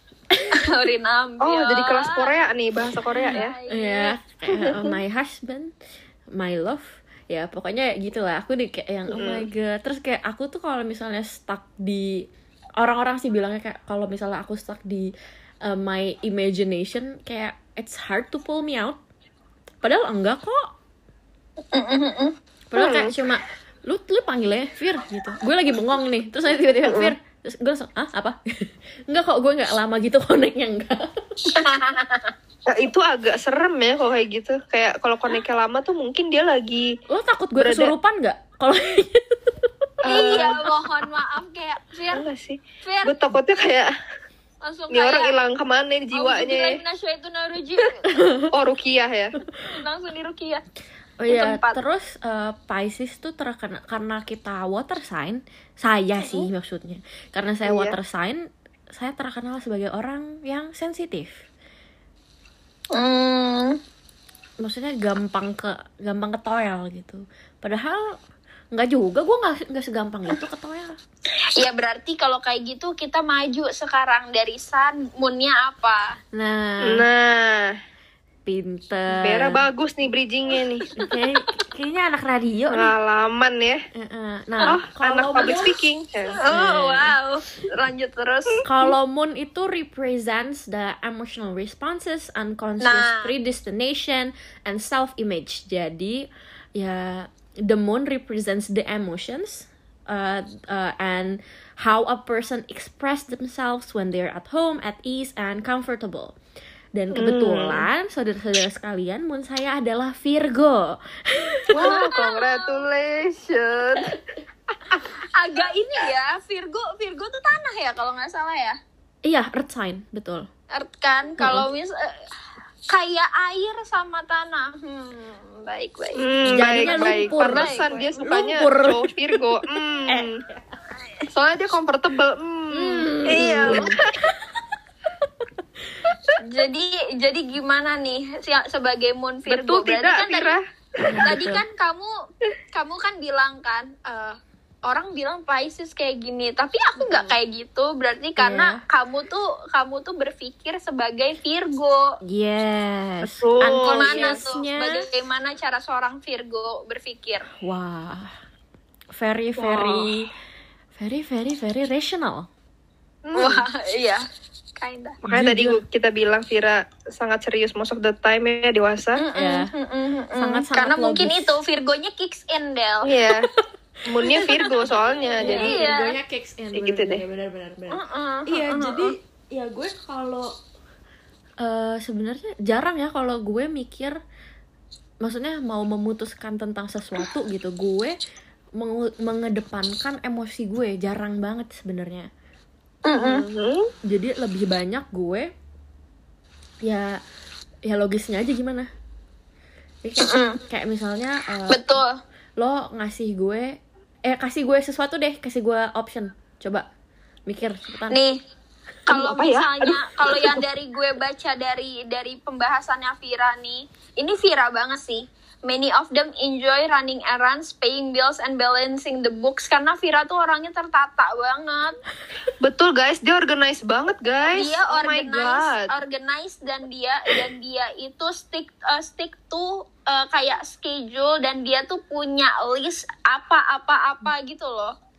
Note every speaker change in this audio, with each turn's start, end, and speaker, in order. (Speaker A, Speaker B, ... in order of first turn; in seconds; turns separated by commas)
Speaker A: 0.4-2.4, Speaker B: 1.4-3.5, Speaker C: 3.1-5.7, Speaker A: 3.3-4.2, Speaker B: 4.5-4.9, Speaker C: 6.3-15.1, Speaker B: 9.1-9.5, Speaker C: 15.6-19.0, Speaker C: 19.8-20.7, Speaker A: 21.7-22.3, Speaker C: 22.7-31.2, Speaker B: 22.8-23.1, Speaker B: 26.9-27.1, Speaker A: 31.5-32.3, Speaker B: 32.7-37.0, Speaker C: 37.1-39.7, Speaker B: 37.6-37.9, Speaker B: 40.0-40.7, Speaker A: 40.0-42.2, Speaker B: 42.1-43.9, Speaker A: 42.8-43.2, Speaker A: 44.6-45.4, Speaker B: 44.9-46.8, Speaker A: 46.1-48.2, Speaker C: 48.0-48.5, Speaker B: 48.5-49.4, Speaker A: 49.7-50.6, Speaker C: 51.2-61.4, Speaker A: 51.3-51.8, Speaker B: 57.6-58.0, Speaker A: 62.9-63.8, Speaker C: 64.6-68.2, Speaker C: 68.7-71.0, Speaker A: 71.5-76.2, Speaker C: 76.3-77.0, Speaker B: 76.8-77.7, Speaker C: 78.5-79.6, Speaker B: 79.1-80.9, Speaker C: 81.0-82.9, Speaker B: 82.7-83.8, Speaker C: 83.9-85.8, Speaker B: 84.6-86.4, Speaker A: 86.3-88.6, Speaker C: 86.4-87.2, Speaker C: 88.6-106.3, Speaker A: 92.8-93.3, Speaker C: 106.9-112.0, Speaker B: 107.1-107.9, Speaker B: 111.7-114.2, Speaker A: 111.7-112.8, Speaker A: 115.0-118.8, Speaker C: 119.2-120.5, Speaker A: 120.7-122.3, Speaker C: 121.4-121.7, Speaker A: 122.9-128.2, Speaker B: 126.2-130.4, Speaker C: 126.5-129.1, Speaker C: 130.1-130.6, Speaker B: 131.3-134.3, Speaker C: 132.7-134.4, Speaker A: 133.2-134.0, Speaker A: 136.4-140.6, Speaker B: 139.5-141.2, Speaker C: 141.0-141.6, Speaker A: 141.2-142.1, Speaker A: 142.7-152.2, Speaker C: 147.0-147.3, Speaker C: 148.4-148.8, Speaker C: 152.2-155.1, Speaker B: 153.2-154.4, Speaker A: 153.8-157.5, Speaker C: 157.6-158.3, Speaker C: 159.1-160.3, Speaker B: 159.6-160.1, Speaker C: 161.0-162.5, Speaker B: 163.2-163.6, Speaker A: 163.3-164.2, Speaker A: 164.8-165.2, Speaker C: 165.2-165.8, Speaker B: 165.2-169.2, Speaker A: 169.2-173.1, Speaker C: 169.3-169.7, Speaker C: 170.3-171.6, Speaker B: 173.0-173.5, Speaker B: 174.0-175.8, Speaker C: 174.2-174.6, Speaker A: 174.3-176.2, Speaker C: 175.4-180.5, Speaker B: 176.7-177.2, Speaker A: 177.9-179.1, Speaker C: 181.6-184.2, Speaker C: 185.2-188.2, Speaker C: 188.8-192.3, Speaker A: 193.1-193.4, Speaker B: 193.2-193.9, Speaker C: 194.0-195.5, Speaker C: 196.8-197.2, Speaker C: 197.8-198.9, Speaker C: 200.0-202.0, Speaker A: 200.2-200.6, Speaker A: 201.7-202.2, Speaker C: 202.6-206.8, Speaker C: 207.4-208.2, Speaker A: 208.1-208.4, Speaker A: 209.1-222.0, Speaker B: 209.1-210.6, Speaker B: 222.6-225.9, Speaker A: 224.5-234.9